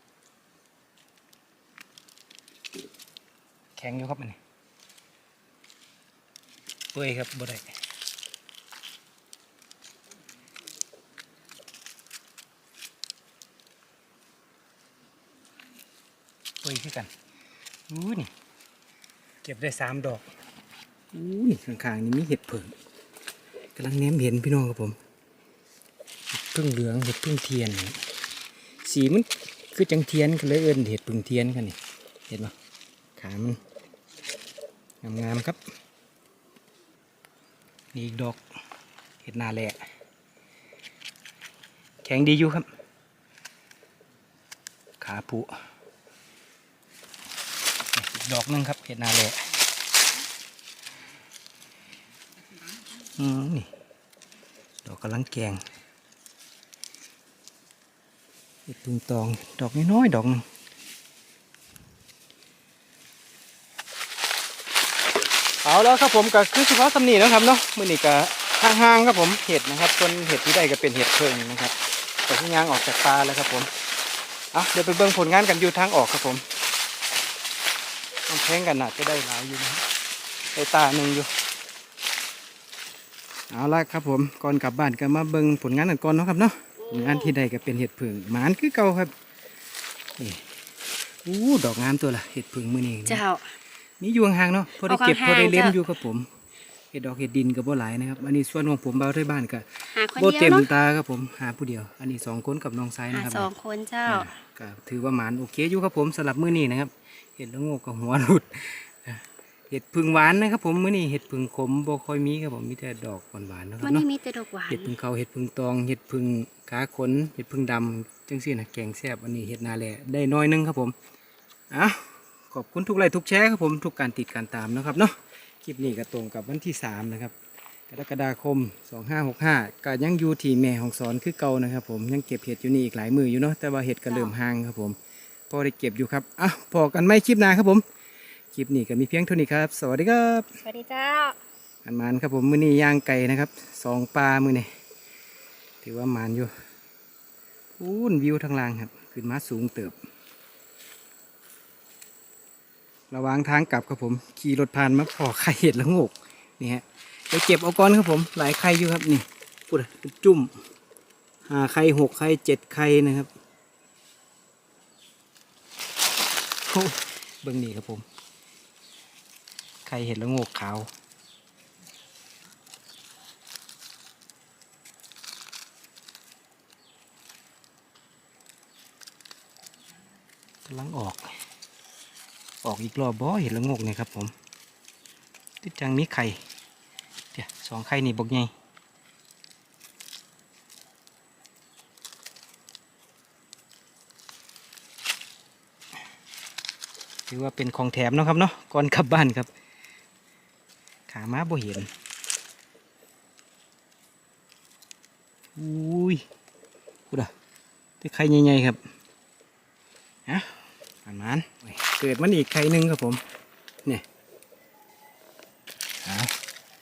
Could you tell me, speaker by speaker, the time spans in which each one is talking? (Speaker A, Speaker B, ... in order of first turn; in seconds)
Speaker A: 3.8-4.4, 6.9-7.7, 16.6-17.1, 17.9-18.3, 19.4-20.2, 21.1-22.7, 23.8-25.0, 26.3-28.0, 28.8-31.8, 32.3-32.5, 33.2-33.6, 35.0-35.6, 37.9-38.4, 39.2-39.8, 42.0-42.7, 45.0-45.5, 47.9-49.5, 53.1-53.7, 54.9-55.6, 58.7-60.5, 65.6-71.8, 72.3-73.7, 74.5-76.5, 78.3-79.8, 80.5-81.3, 83.5-89.1, 90.2-90.5, 91.2-93.2, 94.0-96.3, 96.9-103.5, 104.1-114.1, 114.7-121.0, 121.7-127.3, 127.9-135.0, 135.5-137.8, 138.5-140.6, 141.8-144.7, 145.8-146.5, 147.8-149.9, 153.1-160.6, 161.5-163.3, 166.7-168.1, 169.9-170.9, 180.7-181.3, 182.6-184.3, 185.6-186.4, 187.3-188.5, 197.3-199.5, 201.1-201.9, 205.6-206.2, 208.0-208.8, 210.3-213.2, 216.0-216.3
Speaker B: 93.1-93.5, 94.8-95.8, 99.9-100.7, 103.1-104.3, 113.8-114.9, 140.6-141.4